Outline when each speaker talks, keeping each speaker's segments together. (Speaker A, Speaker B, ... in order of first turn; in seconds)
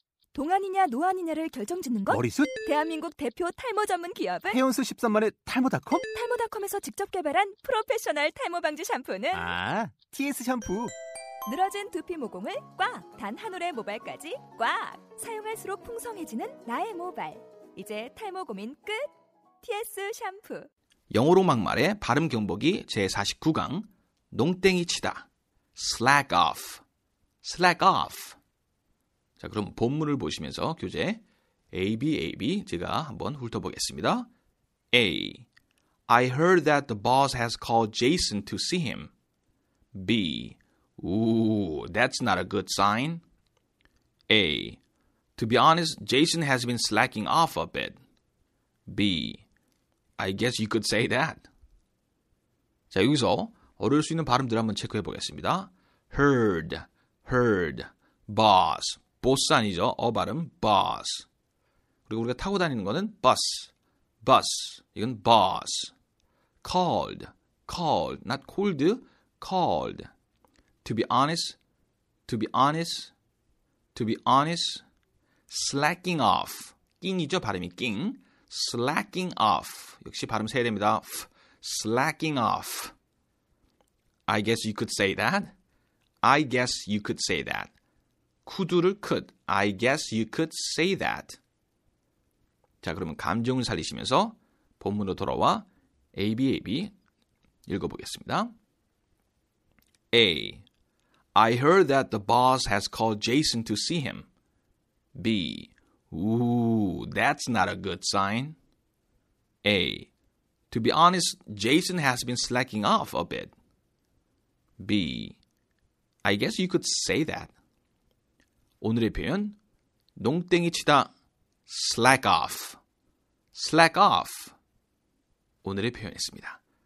Speaker A: 0.3-4.6, 6.0-9.5, 11.4-19.1, 19.6-20.7
Speaker B: 2.1-2.5, 4.5-6.0, 9.3-10.9
Speaker C: 21.1-26.8, 27.4-28.4, 29.4-34.3, 34.9-35.5, 36.1-39.1, 39.9-43.2, 44.3-44.8, 45.4-48.0, 48.9-49.4, 50.2-51.5, 52.9-61.3, 62.1-63.7, 64.2-65.9, 66.6-70.1, 70.8-71.6, 72.3-73.1, 73.9-74.8, 75.5-82.9, 84.3-85.5, 86.2-87.7, 88.5-91.4, 92.8-96.9, 97.7-98.5, 100.1-100.6, 101.3-104.3, 105.1-108.6, 109.6-110.1, 110.7-113.5, 114.8-115.4, 116.2-117.5, 118.8-119.6, 120.2-121.1, 121.7-122.8, 123.5-124.5, 125.6-126.6